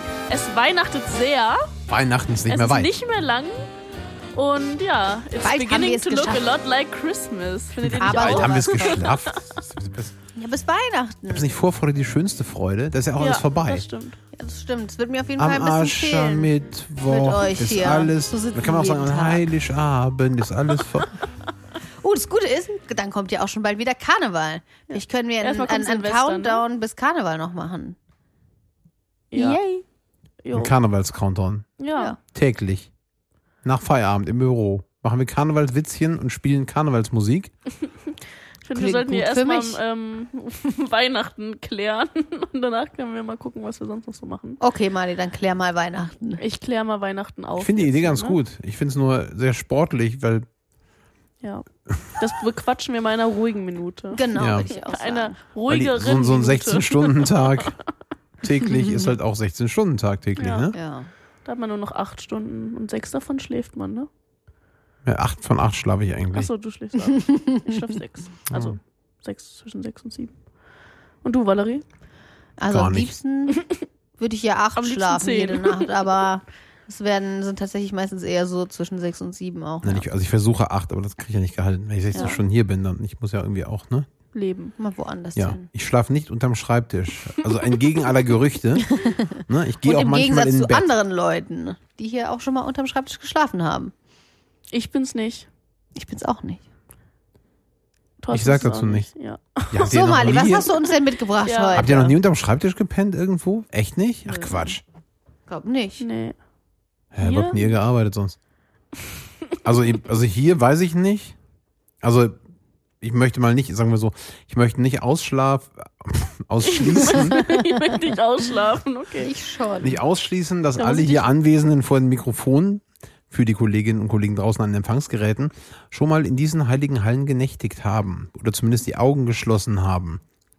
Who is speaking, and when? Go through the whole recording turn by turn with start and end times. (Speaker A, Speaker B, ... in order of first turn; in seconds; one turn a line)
Speaker A: 0.3-1.7
Speaker B: 1.9-2.9
Speaker A: 2.5-3.6
Speaker A: 4.3-9.6
Speaker C: 5.4-6.4
Speaker B: 7.8-10.2
Speaker C: 8.0-9.0
Speaker C: 10.3-11.5
Speaker B: 11.3-13.9
Speaker A: 13.2-14.2
Speaker C: 14.3-16.5
Speaker B: 15.4-21.2
Speaker C: 17.1-19.4
Speaker C: 22.0-28.0
Speaker A: 24.9-26.6
Speaker A: 29.3-29.6
Speaker C: 29.3-29.8
Speaker A: 30.4-30.7
Speaker B: 30.5-31.7
Speaker A: 31.8-32.2
Speaker B: 32.3-32.9
Speaker B: 33.6-37.5
Speaker A: 38.6-44.6
Speaker C: 38.8-39.8
Speaker C: 44.6-46.4
Speaker A: 46.4-48.4
Speaker B: 47.5-50.5
Speaker A: 51.4-57.7
Speaker C: 54.1-55.5
Speaker B: 54.4-54.7
Speaker B: 55.7-57.8
Speaker B: 58.4-60.7
Speaker C: 58.6-59.2
Speaker A: 60.4-60.7
Speaker C: 60.7-61.1
Speaker A: 61.5-64.1
Speaker B: 65.0-66.5
Speaker A: 66.3-70.3
Speaker C: 67.3-67.8
Speaker B: 68.5-68.8
Speaker A: 71.2-71.8
Speaker C: 72.6-73.6
Speaker B: 72.7-73.1
Speaker C: 74.2-80.0
Speaker A: 74.8-75.9
Speaker B: 79.8-84.1
Speaker C: 82.1-82.4
Speaker A: 82.1-82.4
Speaker A: 84.3-84.7
Speaker C: 84.8-85.7
Speaker B: 85.3-88.9
Speaker C: 88.8-93.9
Speaker B: 89.4-90.9
Speaker A: 94.7-95.5
Speaker C: 96.0-96.6
Speaker A: 98.2-99.9
Speaker B: 98.3-99.1
Speaker B: 99.7-100.7
Speaker C: 99.8-102.2
Speaker A: 101.4-101.9
Speaker B: 101.7-104.8
Speaker C: 104.3-104.8
Speaker C: 105.5-106.0
Speaker A: 106.0-106.4
Speaker B: 107.1-108.3
Speaker A: 107.2-107.7
Speaker B: 109.6-111.3
Speaker B: 112.0-112.4
Speaker B: 113.0-117.4
Speaker A: 116.6-119.3
Speaker C: 119.2-120.0
Speaker B: 119.8-130.2
Speaker A: 120.8-121.3